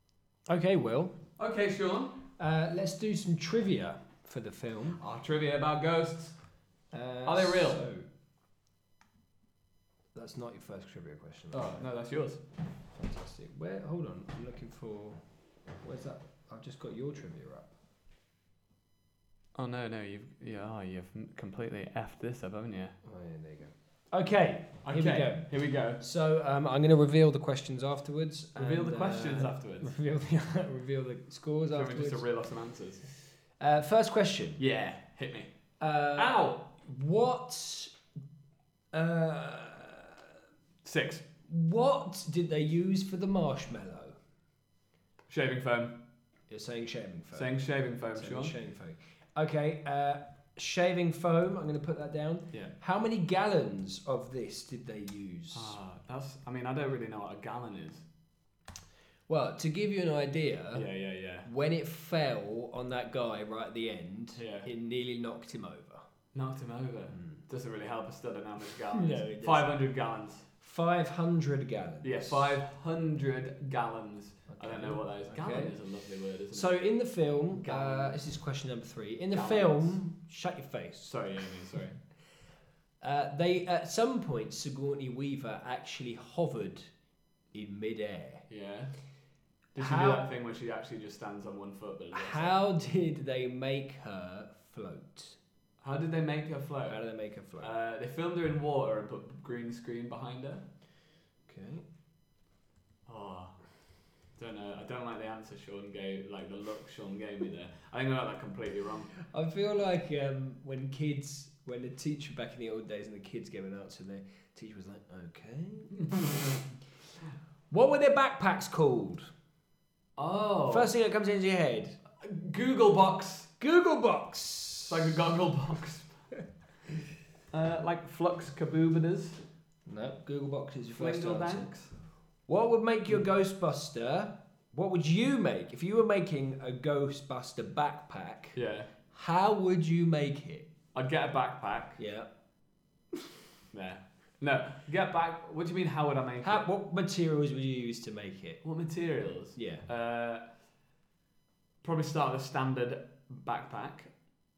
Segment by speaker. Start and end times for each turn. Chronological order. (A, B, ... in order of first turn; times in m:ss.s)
0:00.5-0:01.2 A
0:01.4-0:02.2 B
0:02.4-0:05.0 A
0:05.0-0:06.4 B
0:06.9-0:08.0 A
0:07.2-0:07.8 B
0:10.1-0:11.8 A
0:11.5-0:12.4 B
0:12.9-0:15.2 A
0:15.8-0:17.7 A
0:19.5-0:23.0 B
0:23.0-0:32.2 A
0:24.8-0:26.0 B
0:28.6-0:29.9 B
0:31.7-0:33.0 B
0:33.6-0:34.6 A
0:34.6-0:35.5 B
0:35.8-0:37.9 A
0:36.1-0:36.6 B
0:38.9-0:40.2 A
0:40.8-0:41.2 B
0:41.5-0:44.2 A
0:45.3-0:46.0 B
0:46.5-0:47.5 A
0:47.3-0:48.5 B
0:48.1-0:55.8 A
0:55.5-0:58.0 B
0:59.3-1:00.9 A
1:00.7-1:01.5 B
1:01.4-1:06.0 A
1:04.4-1:04.7 B
1:06.3-1:10.5 B
1:08.9-1:09.7 A
1:10.6-1:12.6 A
1:12.0-1:16.7 B
1:14.5-1:15.7 A
1:16.5-1:21.1 A
1:17.5-1:18.2 B
1:19.3-1:20.0 B
1:21.1-1:22.0 B
1:23.0-1:26.9 A
1:27.5-1:28.4 A
1:28.5-1:28.9 B
1:29.7-1:32.6 B
1:29.8-1:30.3 A
1:32.1-1:35.4 A
1:35.8-1:37.0 B
1:36.9-1:37.7 A
1:37.6-1:40.6 B
1:41.5-1:41.8 A
1:43.1-1:43.6 B
1:44.4-1:49.1 B
1:49.2-1:56.2 A
1:55.9-1:56.5 B
1:57.7-1:59.3 A
2:00.2-2:00.9 B
2:00.7-2:02.0 A
2:02.2-2:03.5 B
2:03.6-2:05.1 A
2:04.9-2:06.1 B
2:07.5-2:09.4 B
2:09.9-2:11.7 A
2:11.0-2:11.9 B
2:12.5-2:18.6 A
2:18.5-2:18.9 B
2:19.1-2:20.7 A
2:20.9-2:22.0 B
2:22.0-2:22.3 A
2:23.7-2:26.6 B
2:26.4-2:28.6 A
2:28.6-2:30.4 B
2:29.6-2:29.8 A
2:31.8-2:34.1 B